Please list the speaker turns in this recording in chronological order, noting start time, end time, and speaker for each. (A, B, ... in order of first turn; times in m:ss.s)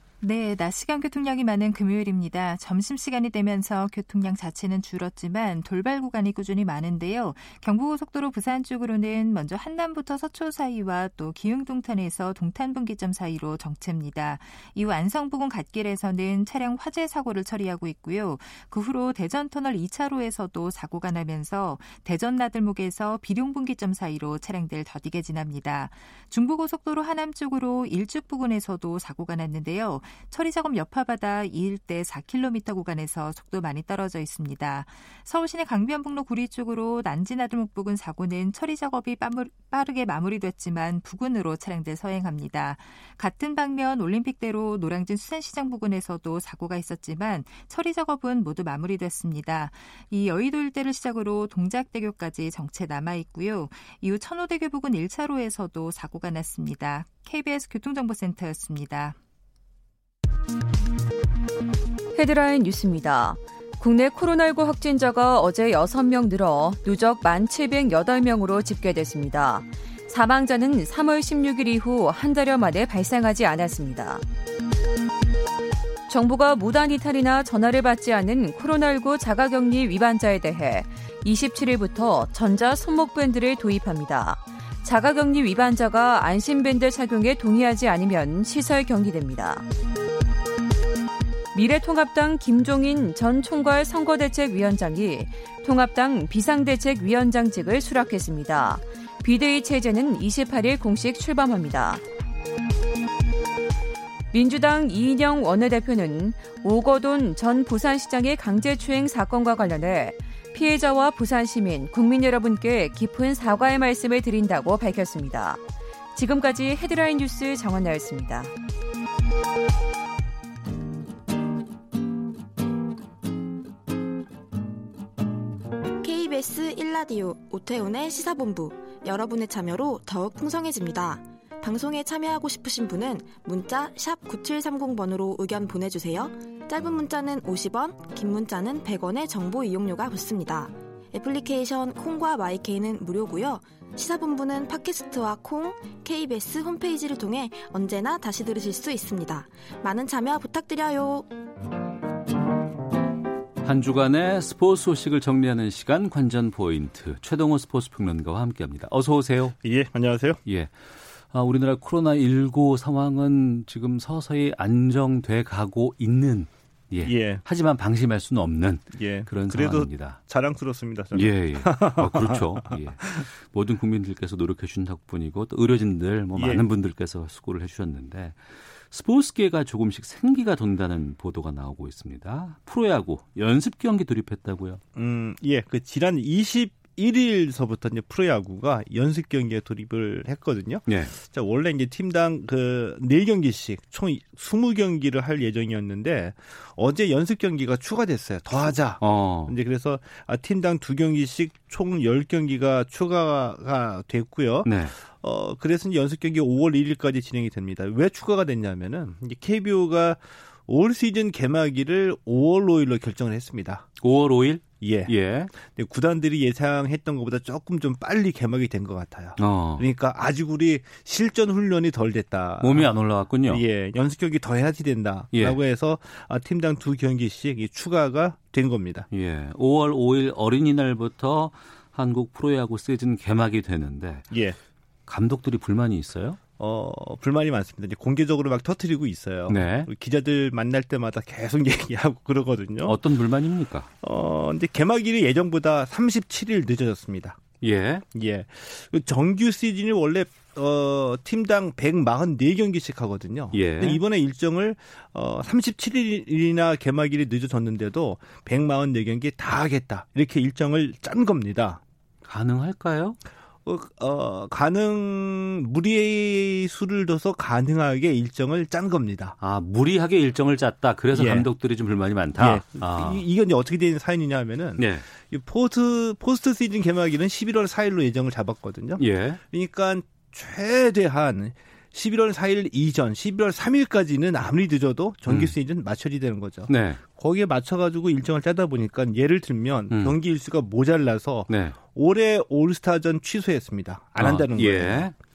0:00.2-0:59.2 A
1:02.2-1:14.2 B
1:16.1-1:29.6 B
1:31.5-1:42.0 B
1:44.3-1:55.6 B
1:56.2-1:58.5 B
2:06.0-2:31.3 C
2:33.6-2:39.6 D
2:39.6-2:40.4 E
2:40.4-2:40.8 D
2:41.3-2:50.2 D
2:47.1-2:47.4 E
2:49.0-2:53.3 E
2:51.1-3:04.8 D
2:56.4-2:56.6 E
3:05.0-3:33.9 E
3:10.9-3:11.2 D
3:19.0-3:19.6 D
3:24.6-3:25.0 D
3:34.0-3:35.5 D
3:34.8-3:42.9 E
3:39.4-3:39.9 D
3:42.6-3:43.6 D
3:43.5-3:49.1 E
3:45.3-3:45.6 D
3:49.1-3:54.3 D
3:54.3-3:54.6 E
3:55.1-3:56.4 D
3:56.6-4:03.0 E
3:59.5-3:59.9 D
4:02.8-4:03.9 D
4:04.0-4:07.4 E
4:07.6-4:08.0 D
4:08.1-4:21.8 E
4:13.5-4:14.0 D
4:22.2-4:23.2 D
4:23.7-4:29.4 E
4:29.4-4:33.2 D
4:31.1-4:31.5 E
4:32.4-4:55.2 E
4:34.8-4:35.0 D
4:39.0-4:39.4 D
4:45.3-4:45.6 D
4:46.7-4:47.0 D
4:49.9-4:50.2 D
4:51.5-4:51.8 D
4:54.2-4:55.1 D